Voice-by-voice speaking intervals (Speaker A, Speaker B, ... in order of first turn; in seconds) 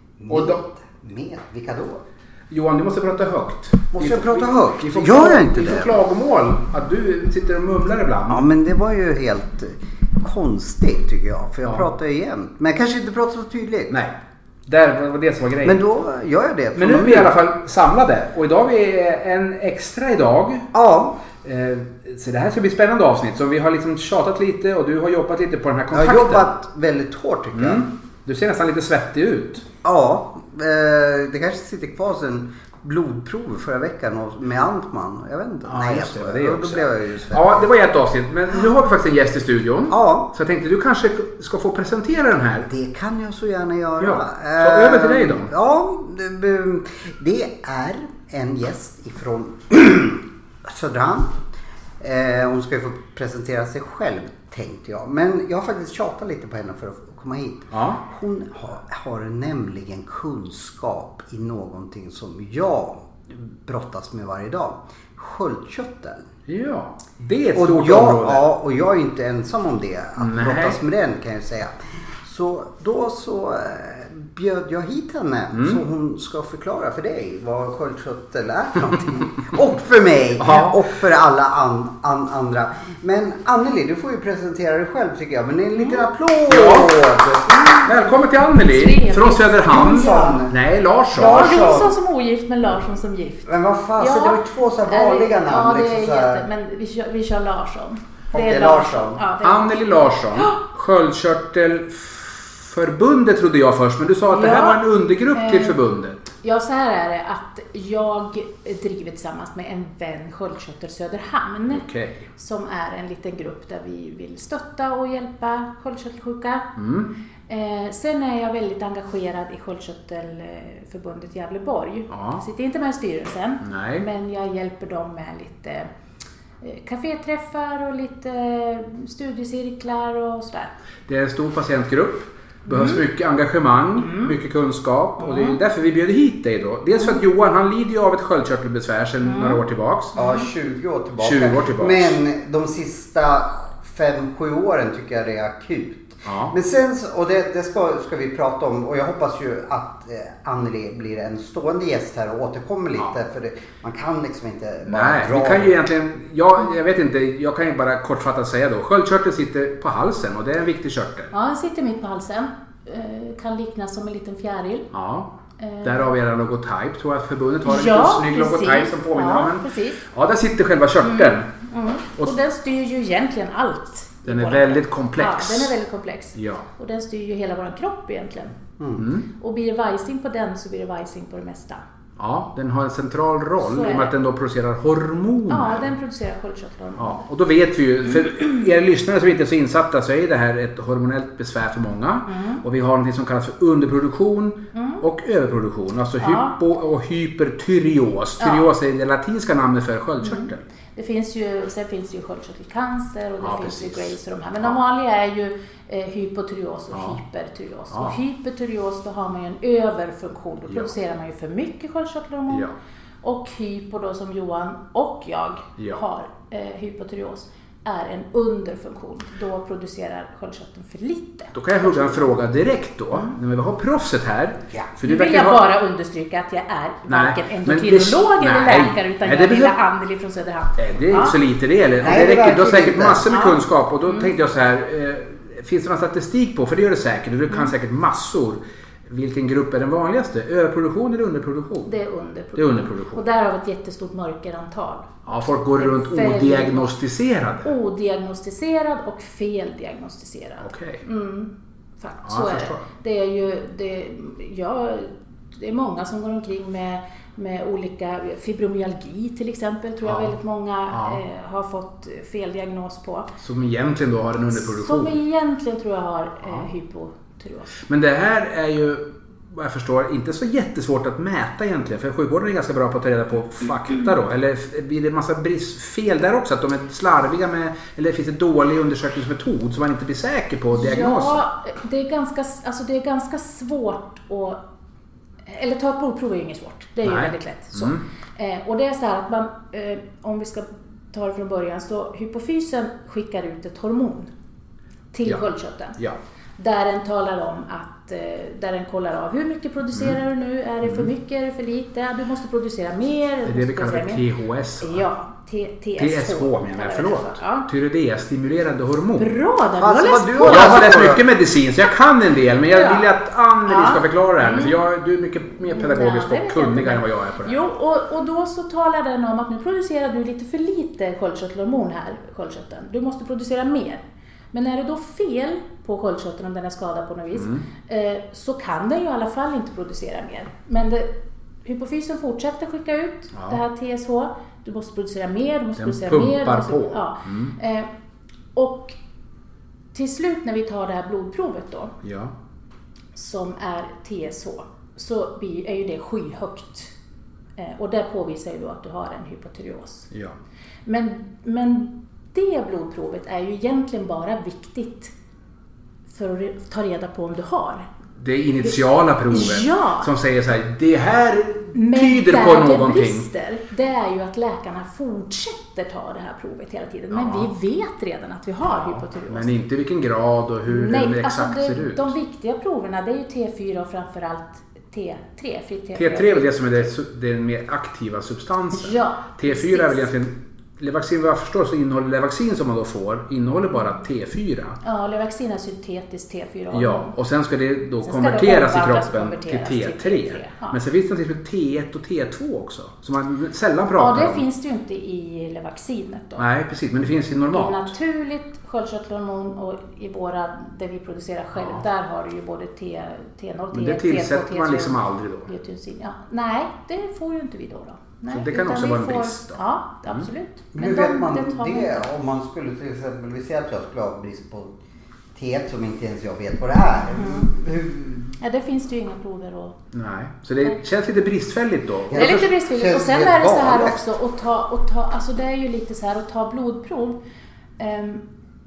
Speaker A: 0.2-2.0, 3.9-6.0, 8.3-13.9, 15.6-17.3, 20.7-21.2, 25.9-27.8, 29.8-37.7, 39.9-40.3, 42.7-51.5, 52.0-66.3, 67.5-88.0, 89.7-90.6, 91.1-91.9, 93.5-96.5, 98.3-99.2, 140.2-155.8, 178.8-179.1, 232.0-233.2, 309.8-311.2, 410.7-414.8, 415.3-418.3, 422.1-424.0
Speaker B: 0.3-0.6, 2.5-8.5, 13.9-14.2, 14.7-15.8, 16.8-20.7, 21.4-26.5, 27.6-29.6, 35.6-42.7, 44.0-45.5, 57.7-58.0, 66.5-68.4, 70.2-70.8, 75.5-75.8, 80.4-80.8, 86.5-86.9, 87.8-91.7, 99.4-106.3, 111.7-112.3, 116.8-117.1, 122.1-122.4, 123.6-124.0, 131.1-140.1, 141.2-142.2, 146.2-146.5, 154.9-161.3, 164.9-165.3, 165.8-171.5, 174.3-175.7, 176.4-176.7, 179.0-179.3, 182.2-185.9, 187.0-200.6, 203.4-204.8, 206.9-207.2, 207.9-208.2, 221.5-225.6, 227.1-229.7, 230.8-241.9, 242.6-243.2, 245.3-247.7, 250.6-251.0, 252.2-252.8, 260.1-260.3, 260.9-261.2, 263.4-265.2, 267.9-281.4, 287.0-288.0, 300.8-301.1, 303.4-305.0, 306.0-309.3, 310.4-317.7, 327.4-327.6, 333.3-333.6, 335.8-337.6, 342.0-342.3, 358.2-363.3, 367.1-367.5, 368.7-372.1, 375.9-384.8, 386.7-394.4, 396.4-397.9, 401.5-401.8, 403.7-405.5, 408.3-410.3, 419.9-422.5
Speaker C: 87.8-90.4, 91.2-99.8, 104.3-105.8, 106.4-116.7, 117.5-125.9, 126.6-130.7, 132.7-133.0, 134.0-134.3, 135.2-135.6, 139.2-139.6, 140.2-140.5, 161.3-164.9, 165.6-166.1, 167.7-170.0, 171.0-178.6, 179.4-181.8, 183.6-184.1, 185.5-187.2, 192.3-192.6, 194.7-195.0, 196.2-196.5, 198.4-198.7, 200.2-212.7, 213.2-222.2, 225.1-231.4, 233.3-234.3, 241.9-246.9, 247.6-263.3, 264.5-267.8, 280.7-284.6, 285.5-294.3, 295.1-296.0, 296.6-304.2, 304.8-307.7, 309.2-310.9, 312.7-313.1, 313.7-314.8, 315.7-331.1, 331.6-337.9, 338.6-339.0, 339.9-341.9, 343.1-346.9, 347.6-350.1, 350.9-355.1, 356.1-357.9, 359.3-360.1, 361.7-369.5, 370.7-376.9, 378.7-380.1, 384.8-387.1, 388.0-390.8, 394.0-396.5, 397.5-412.1, 417.1-417.5, 418.4-419.8, 422.1-427.2, 427.8-428.2